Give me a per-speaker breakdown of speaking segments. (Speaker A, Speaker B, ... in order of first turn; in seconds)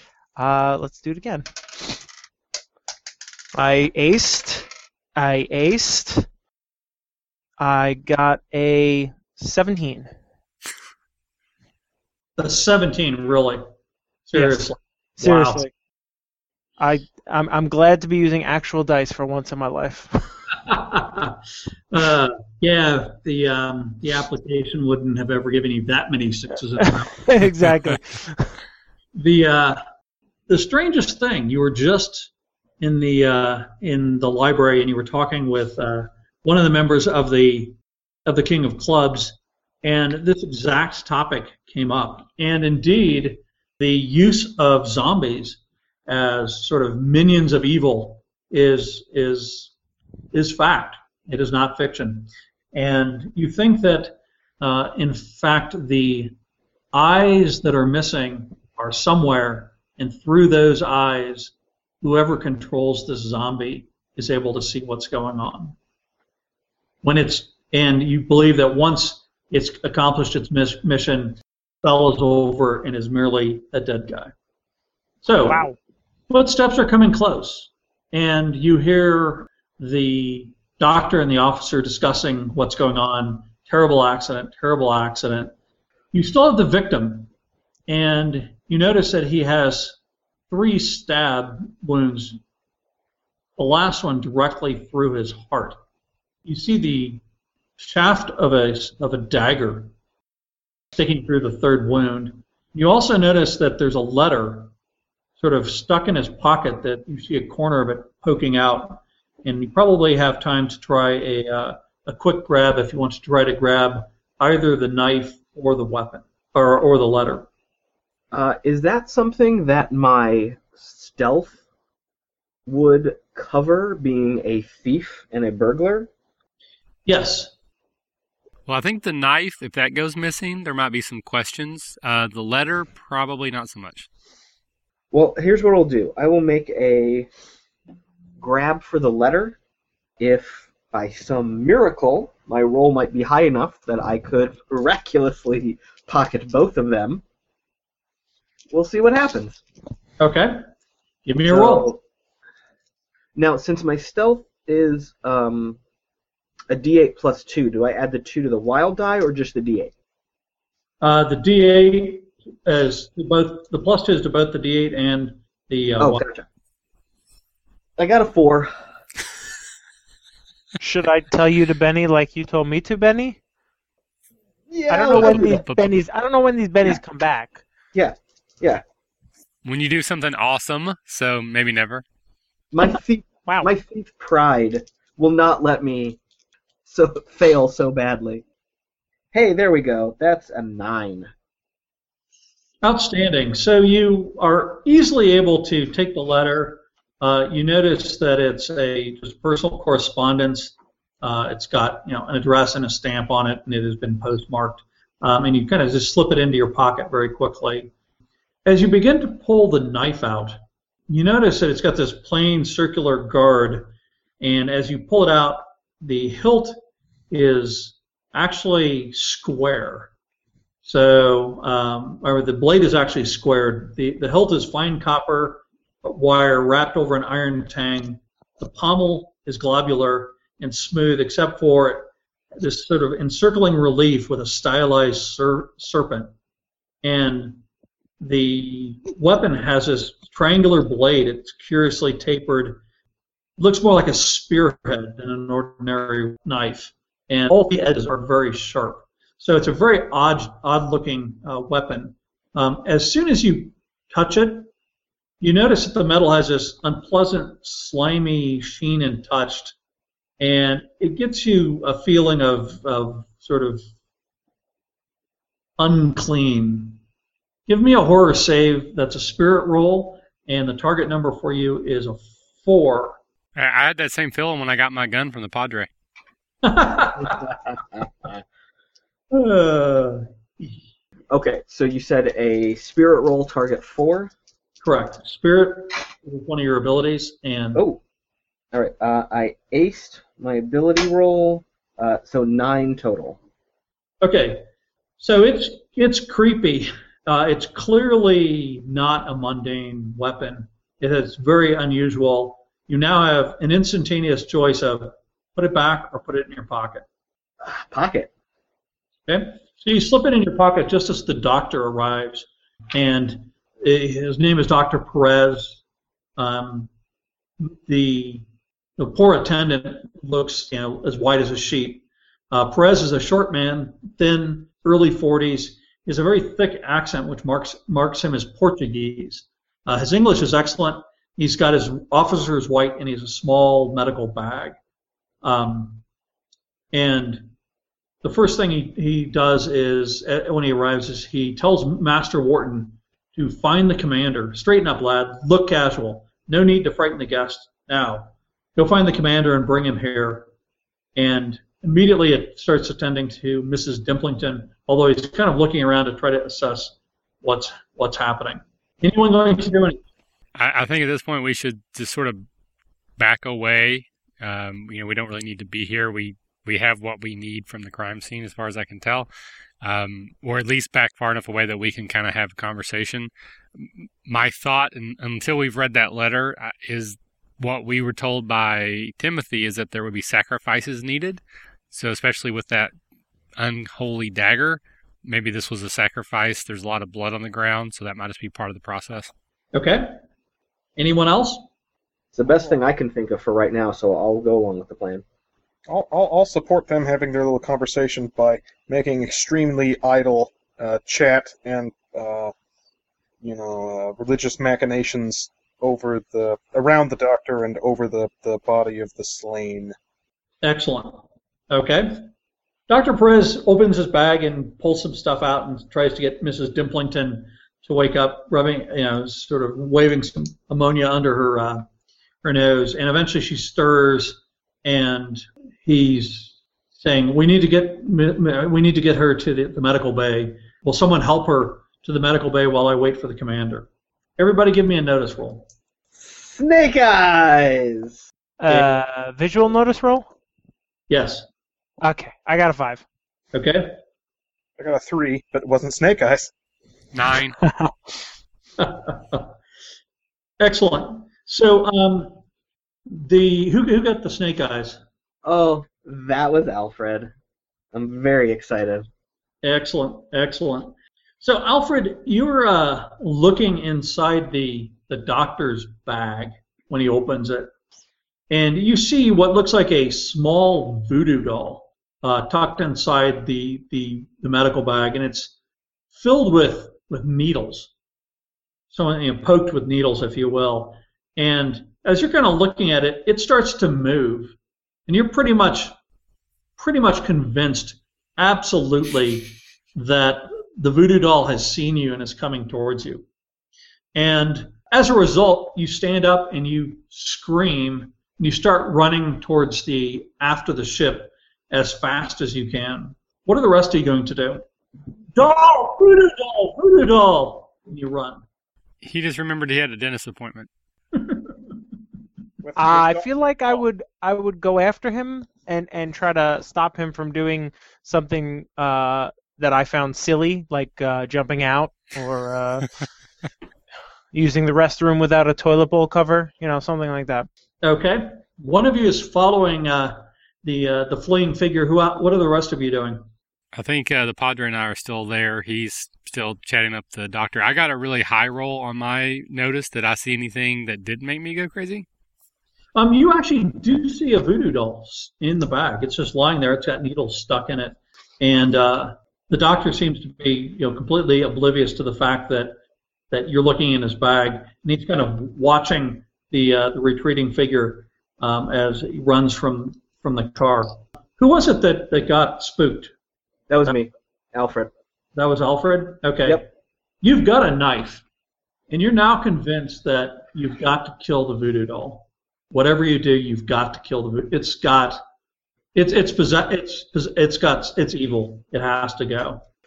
Speaker A: 0.4-2.0, 3.5-6.3, 7.6-10.1, 14.3-15.7, 16.8-20.4, 26.8-28.5, 75.5-75.8, 170.8-173.4, 174.9-177.6, 438.6-440.3, 442.0-443.0, 447.6-447.9, 512.8-522.9, 524.3-527.5
Speaker B: 12.4-13.6, 14.3-15.6, 20.6-21.4, 21.9-27.2, 29.2-29.8, 30.5-32.3, 32.8-49.7, 50.3-56.3, 56.9-65.8, 67.0-74.3, 75.2-75.7, 76.3-85.5, 86.1-87.3, 87.9-90.0, 90.5-92.4, 93.6-95.8, 96.5-97.2, 97.8-99.9, 100.9-104.7, 105.4-117.5, 127.1-127.5, 150.2-150.6, 151.3-151.9, 161.0-166.2, 192.8-207.9, 208.7-210.6, 211.1-216.8, 217.3-220.1, 220.8-236.3, 237.0-237.6, 238.2-242.8, 243.6-254.7, 255.4-259.8, 260.4-263.8, 265.8-267.0, 267.7-273.2, 276.6-277.6, 279.3-280.8, 284.8-287.8, 294.2-294.6, 295.2-307.1, 309.3-315.8, 316.4-316.9, 317.6-318.4, 319.0-334.8, 335.4-336.0, 336.9-337.5, 338.2-350.5, 351.2-360.0, 389.7-390.2, 391.0-391.7, 410.6-412.3, 412.9-421.9, 422.4-433.9, 434.4-435.7, 438.7-439.0, 441.1-441.5, 443.5-444.0, 448.8-449.5, 450.6-452.4, 453.1-455.0, 459.6-467.7, 468.5-475.5, 476.1-477.9, 478.9-484.6, 485.1-485.9, 486.8-493.3, 494.1-504.6, 505.4-508.4, 511.2-511.5, 527.8-533.3, 543.0-552.8, 553.3-563.1, 565.4-566.7, 567.2-568.2, 568.9-575.2, 576.0-579.6
Speaker C: 118.3-121.6, 122.7-126.1, 135.1-137.3, 138.4-139.6, 140.2-147.2, 148.7-149.6, 151.5-152.0, 153.4-155.8, 156.7-159.9, 166.0-166.5, 168.0-168.7, 174.7-175.7, 177.9-178.8, 182.7-186.2, 186.9-188.4, 189.3-191.3, 281.3-284.3, 287.8-288.0, 288.7-293.4, 307.6-308.3, 392.3-395.2, 436.2-438.2, 455.4-457.3, 457.9-459.1, 563.7-564.9
Speaker D: 128.7-134.1, 175.1-175.9, 179.7-182.0, 273.6-275.9, 360.6-362.4, 363.2-369.3, 369.8-382.9, 383.6-389.3, 447.1-447.6, 509.0-510.7, 533.7-542.1
Speaker E: 395.9-402.5, 403.4-409.9, 444.8-446.5, 512.6-513.8